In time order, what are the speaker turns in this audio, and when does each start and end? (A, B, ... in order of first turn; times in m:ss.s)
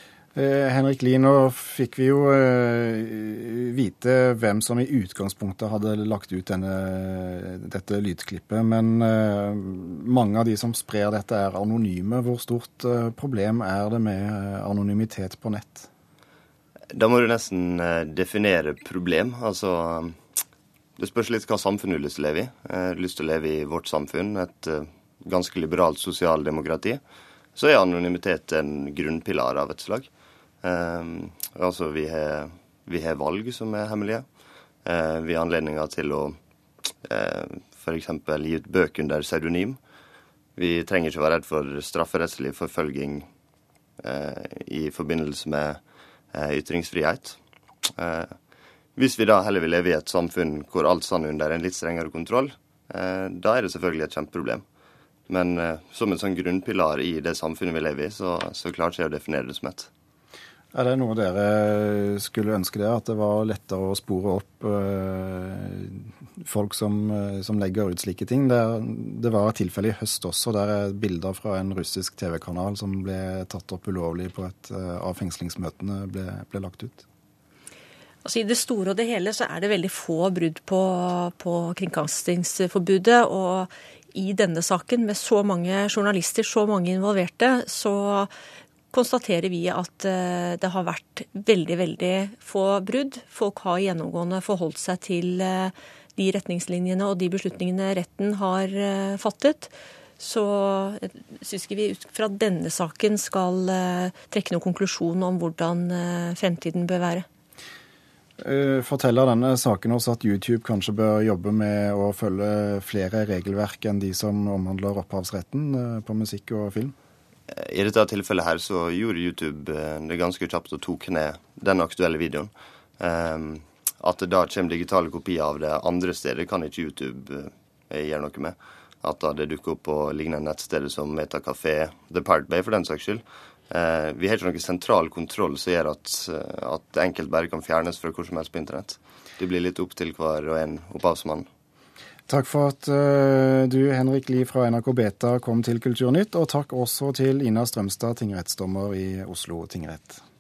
0:00.4-0:15.9 A
0:16.9-0:20.2 B
0:21.0-0:27.0 B
0:27.6-0:30.1 B
0:30.6-0:34.3 B
0:34.8-0:36.4 B
0:37.0-0:39.8 B
0:40.6-0:43.3 B
0:44.0-0:45.8 B
0:46.3-0:47.4 B
0:48.0-0:48.4 B
0:49.0-0:54.6 B
0:55.3-0:59.9 B
1:00.7-1:17.0 A
1:18.2-1:28.3 C
1:28.9-1:47.3 C
1:48.4-1:56.9 A
1:57.5-2:21.5 B
2:22.3-2:30.2 A